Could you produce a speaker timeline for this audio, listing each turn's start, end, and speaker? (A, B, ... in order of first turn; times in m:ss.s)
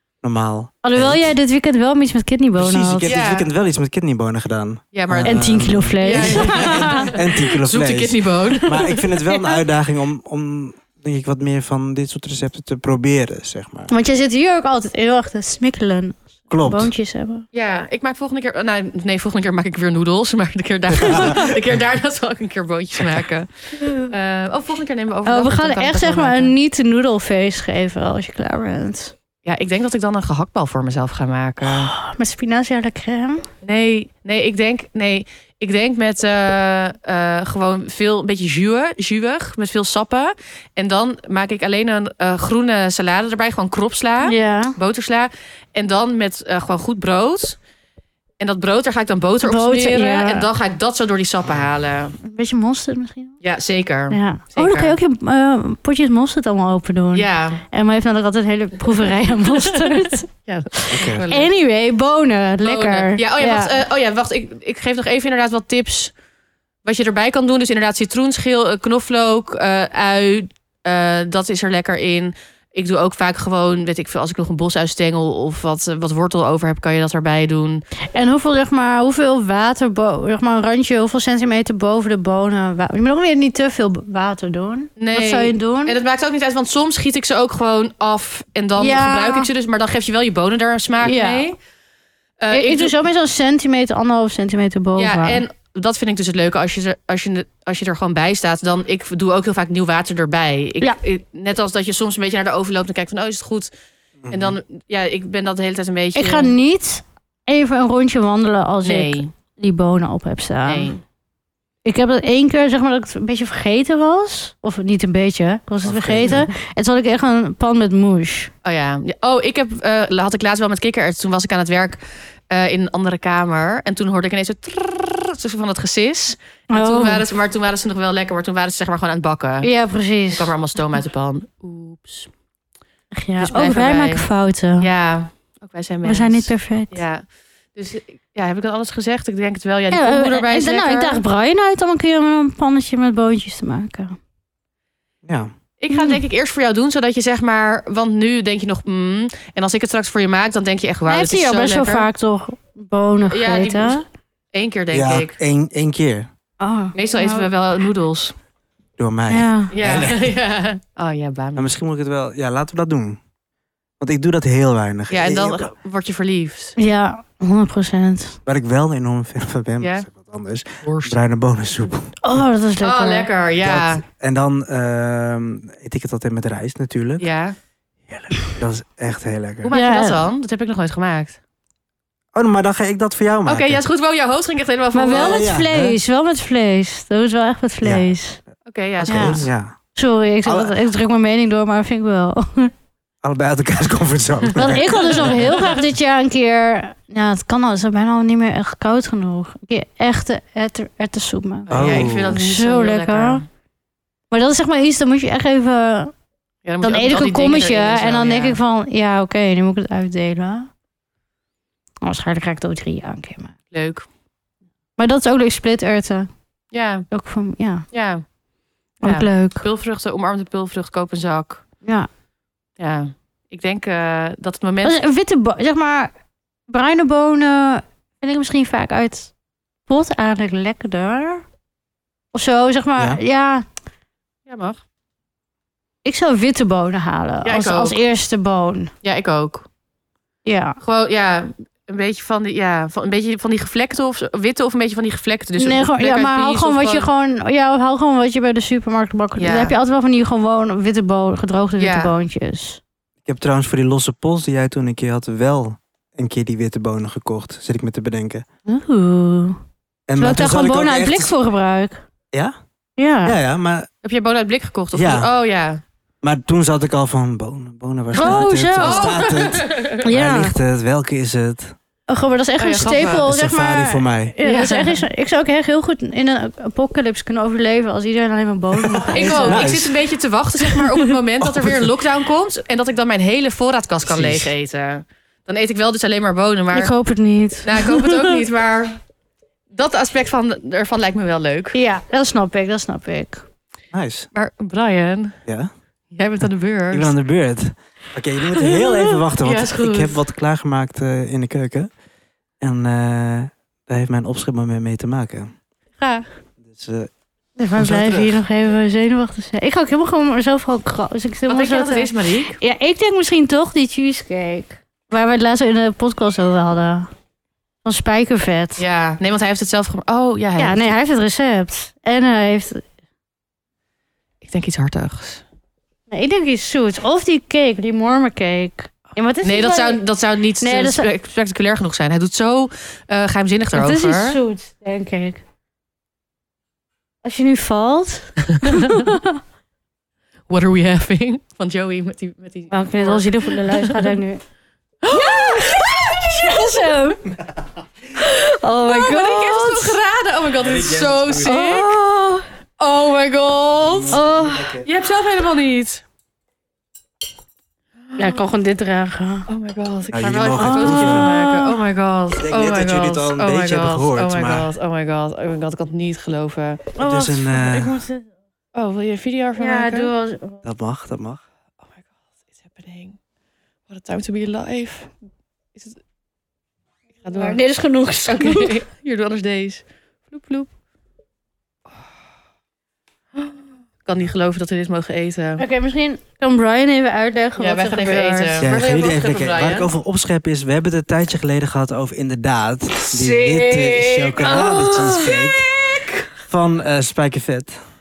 0:00.2-0:01.3 A
0:00.8-0:03.1 B
0:02.6-0:13.9 A
0:03.0-0:03.5 C
0:04.9-0:09.5 C
0:05.2-0:07.1 B
0:13.9-0:17.4 B
0:16.5-0:16.9 A
0:17.5-0:23.5 C
0:21.0-0:21.5 A
0:23.8-0:24.1 B
0:24.0-0:26.5 C
0:25.2-0:29.1 B
0:29.4-0:31.9 C
0:31.7-0:33.5 B
0:33.6-0:47.6 C
0:44.2-0:44.8 B
0:48.4-0:52.2 C
0:49.4-0:50.4 B
0:52.2-0:53.4 B
0:53.4-0:55.0 C
0:54.1-1:00.3 B
0:57.1-0:57.6 C
0:59.5-1:01.5 C
1:00.8-1:03.7 B
1:00.9-1:01.2 A
1:02.6-1:06.1 C
1:06.8-1:17.8 C
1:18.1-1:26.0 B
1:25.0-1:31.6 C
1:28.8-1:29.5 B
1:31.0-1:31.4 B
1:32.4-1:33.0 C
1:32.5-1:35.4 B
1:35.0-1:43.7 C
1:44.2-1:44.6 A
1:44.3-1:46.5 C
1:46.1-1:50.9 B
1:48.8-1:49.3 C
1:50.7-1:51.0 C
1:51.8-1:58.5 B
1:55.8-1:56.5 A
1:58.6-2:02.0 C
2:02.5-2:09.7 C
2:06.7-2:07.2 B
2:09.6-2:10.5 B
2:10.3-2:12.3 C
2:13.1-2:14.9 B
2:13.4-2:14.2 C
2:14.8-2:21.2 C
2:16.0-2:17.0 B
2:19.9-2:24.2 B
2:25.2-2:25.5 A
2:25.8-2:32.1 C
2:25.9-2:26.2 B
2:31.1-2:34.0 B
2:33.3-2:34.0 C
2:34.5-2:35.4 C
2:34.9-2:36.3 A
2:36.6-2:37.5 B
2:36.9-2:38.3 C
2:39.0-2:40.2 A
2:39.3-2:39.7 B
2:39.7-2:41.7 C
2:41.6-2:43.2 A
2:44.0-2:45.6 A
2:45.1-2:46.8 C
2:46.8-2:48.4 B
2:48.4-2:52.1 A
2:49.8-2:50.1 C
2:50.8-2:51.2 C
2:52.2-2:53.3 B
2:52.8-2:54.0 C
2:53.6-2:57.3 A
2:57.2-2:57.6 C
2:58.1-2:59.7 A
2:59.6-3:01.4 C
2:59.7-3:00.2 B
3:02.3-3:03.8 A
3:03.4-3:05.4 C
3:04.9-3:08.4 B
3:05.1-3:06.0 A
3:08.6-3:09.5 C
3:09.0-3:09.7 A
3:09.1-3:09.4 B
3:09.9-3:12.7 B
3:10.4-3:10.8 A
3:13.2-3:15.5 A
3:14.6-3:23.4 B
3:15.5-3:15.8 C
3:21.7-3:23.4 C
3:21.7-3:22.4 A
3:24.3-3:26.1 B
3:26.6-3:28.6 C
3:26.8-3:30.7 B
3:32.0-3:33.5 B
3:33.7-3:34.1 C
3:35.0-3:36.3 B
3:36.7-3:37.0 C
3:37.1-3:37.8 B
3:37.9-3:38.2 C
3:39.0-3:39.7 B
3:39.0-3:41.6 C
3:42.8-3:45.0 C
3:44.8-3:46.1 B
3:46.7-3:49.3 B
3:49.9-3:51.4 B
3:52.3-3:53.6 B
3:54.5-3:54.8 C
3:56.0-3:58.9 B
3:57.4-3:58.0 C
3:59.0-3:59.7 C
4:00.4-4:00.8 B
4:00.8-4:07.1 C
4:05.6-4:12.8 B
4:09.4-4:09.7 C
4:11.8-4:12.1 C
4:13.2-4:18.4 A
4:18.6-4:19.6 B
4:20.1-4:21.3 A
4:20.2-4:22.0 B
4:23.0-4:23.4 B
4:23.2-4:23.9 A
4:24.0-4:25.8 C
4:24.9-4:25.3 A
4:26.2-4:31.7 A
4:28.1-4:29.2 B
4:28.2-4:30.0 C
4:30.0-4:30.5 B
4:32.1-4:39.7 B
4:32.6-4:33.3 C
4:33.0-4:34.4 A
4:34.4-4:35.0 C
4:38.8-4:40.0 A
4:39.1-4:46.9 C
4:40.7-4:41.0 B
4:41.4-4:41.9 A
4:44.1-4:44.5 A
4:46.7-4:48.4 B
4:47.6-4:49.0 C
4:49.7-4:51.8 C
4:51.7-4:53.4 B
4:53.9-4:54.3 A
4:54.3-4:55.4 C
4:55.4-4:55.7 A
4:56.1-4:57.1 C
4:56.9-5:01.9 A
4:59.4-5:00.2 C
5:02.6-5:05.5 A
5:06.0-5:06.3 B
5:06.6-5:07.1 A
5:07.6-5:17.1 B
5:07.8-5:08.4 A
5:11.5-5:12.6 C
5:17.8-5:18.8 B
5:18.8-5:20.9 C
5:20.6-5:22.8 B
5:24.4-5:25.4 C
5:26.1-5:30.0 B
5:29.4-5:34.4 C
5:30.6-5:31.1 B
5:33.7-5:35.4 B
5:37.2-5:39.4 B
5:38.5-5:39.1 C
5:40.5-5:44.2 C
5:42.7-5:44.4 B
5:45.0-5:46.7 C
5:45.1-5:47.2 B
5:48.2-5:50.0 B
5:48.8-5:51.9 C
5:50.6-5:51.6 A
5:51.4-5:52.4 B
5:52.8-5:54.2 C
5:53.8-5:54.9 A
5:54.1-5:54.8 B
5:54.8-5:56.0 C
5:58.1-5:58.4 C
5:58.2-5:59.5 B
5:59.5-6:06.9 C
6:00.1-6:01.3 A
6:00.5-6:01.8 B
6:02.4-6:04.7 A
6:06.9-6:08.3 B
6:07.0-6:08.0 A
6:08.7-6:10.1 C
6:09.6-6:10.6 B
6:10.6-6:11.4 A
6:12.6-6:13.2 C
6:13.9-6:15.1 C
6:17.2-6:17.6 C
6:17.3-6:18.7 B
6:18.3-6:20.7 C
6:24.0-6:25.6 C
6:25.6-6:28.6 B
6:27.6-6:29.9 C
6:28.6-6:35.6 A
6:33.1-6:36.2 C
6:34.4-6:35.4 B
6:36.5-6:37.8 A